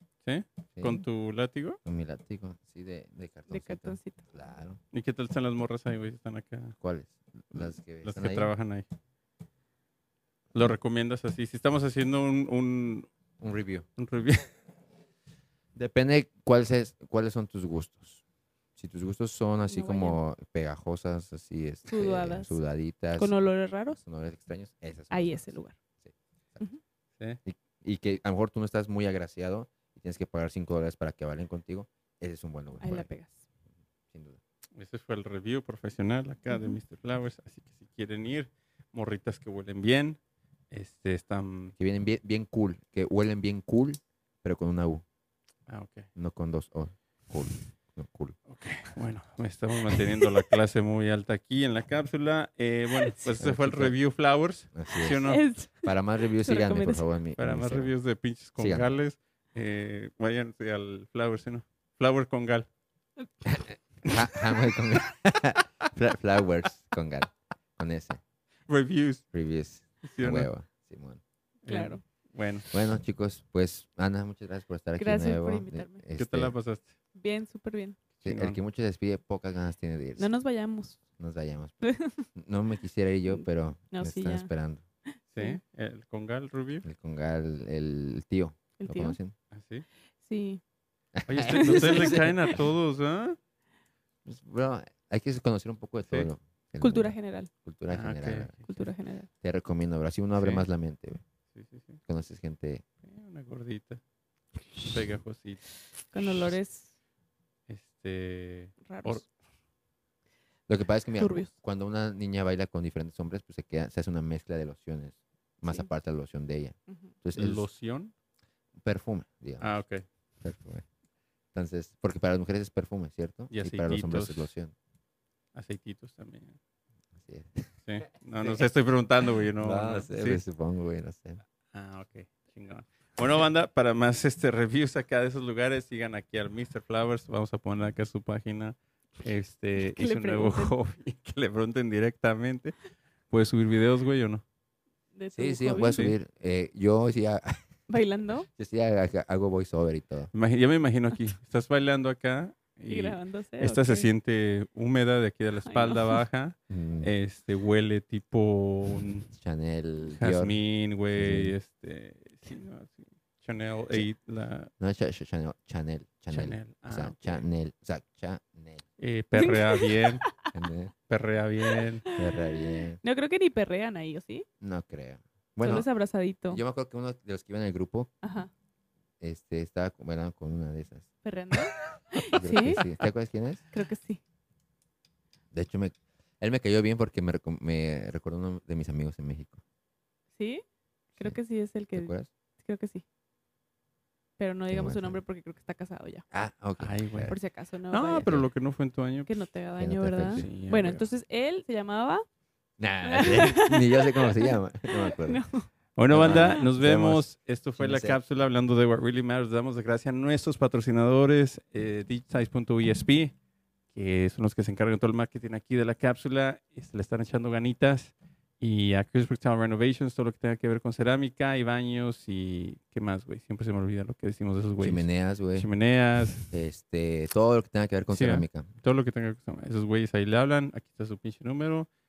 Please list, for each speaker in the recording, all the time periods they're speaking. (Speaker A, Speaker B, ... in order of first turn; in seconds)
Speaker A: 0.2-1.8, 4.9-6.8, 7.5-8.8, 10.5-13.1, 14.0-14.5, 34.8-40.2, 40.7-41.7, 45.7-46.1, 48.5-55.4, 57.4-62.7, 68.7-69.2, 70.0-70.5, 71.7-72.7, 76.2-76.9, 78.2-78.6, 85.3-86.8, 89.5-89.8, 91.3-93.4, 97.9-98.6, 100.4-100.7, 101.5-102.0, 103.0-104.0, 104.8-105.7, 107.7-109.3, 117.3-118.1, 119.6-120.0, 123.5-124.5, 125.5-126.6, 127.8-130.4, 131.7-142.8, 143.3-144.4, 145.9-146.1, 150.3-159.3, 160.1-164.7, 166.3-167.4, 169.0-170.2, 171.1-172.0, 196.8-197.3, 197.9-199.5, 200.3-201.0, 205.9-213.3, 213.9-226.5, 228.1-231.9
Speaker B: 0.7-1.0, 1.8-4.8, 6.8-8.5, 13.4-13.8, 15.7-18.2, 18.8-23.4, 24.0-26.6, 27.4-33.1, 34.1-34.4, 41.8-45.0, 46.1-48.4, 53.4-54.0, 54.7-57.9, 58.6-58.9, 63.5-68.2, 69.3-71.2, 72.7-76.5, 78.2-80.3, 81.2-84.8, 86.8-89.3, 91.2-92.3, 94.2-98.5, 99.4-101.2, 102.1-102.8, 110.7-117.7, 118.8-119.7, 120.4-120.8, 121.5-124.7, 127.2-127.7, 129.6-131.4, 145.3-147.6, 148.5-150.3, 156.7-157.1, 159.4-160.6, 161.1-161.5, 164.8-168.8, 170.5-170.9, 172.2-173.0, 174.6-175.9, 176.5-178.1, 179.2-181.1, 182.3-183.6, 185.5-189.6, 191.9-192.3, 194.7-195.2, 196.3-197.3, 199.8-200.7, 202.8-205.4, 206.1-208.2, 224.8-225.7, 226.5-228.7
Speaker C: 3.5-4.2, 19.7-20.2, 21.9-22.6, 23.1-24.0, 25.1-25.7, 32.8-33.4, 36.5-36.8, 55.2-57.0, 71.7-72.0, 75.0-76.0, 77.1-78.0, 80.2-81.0, 81.8-82.2, 83.3-84.5, 85.1-85.6, 88.8-89.2, 90.2-90.6, 91.5-92.5, 96.8-97.5, 98.7-99.3, 106.1-106.9, 108.8-109.2, 111.2-111.5, 116.9-117.1, 139.8-140.7, 145.1-146.0, 147.9-148.5, 152.9-154.1, 155.6-156.2, 169.3-170.5, 172.0-174.4, 175.6-176.6, 178.2-178.5, 181.2-182.8, 183.7-184.2, 190.4-190.6, 191.2-193.0, 194.4-196.2, 197.3-198.4, 199.3-202.2, 203.0-205.7, 206.2-206.6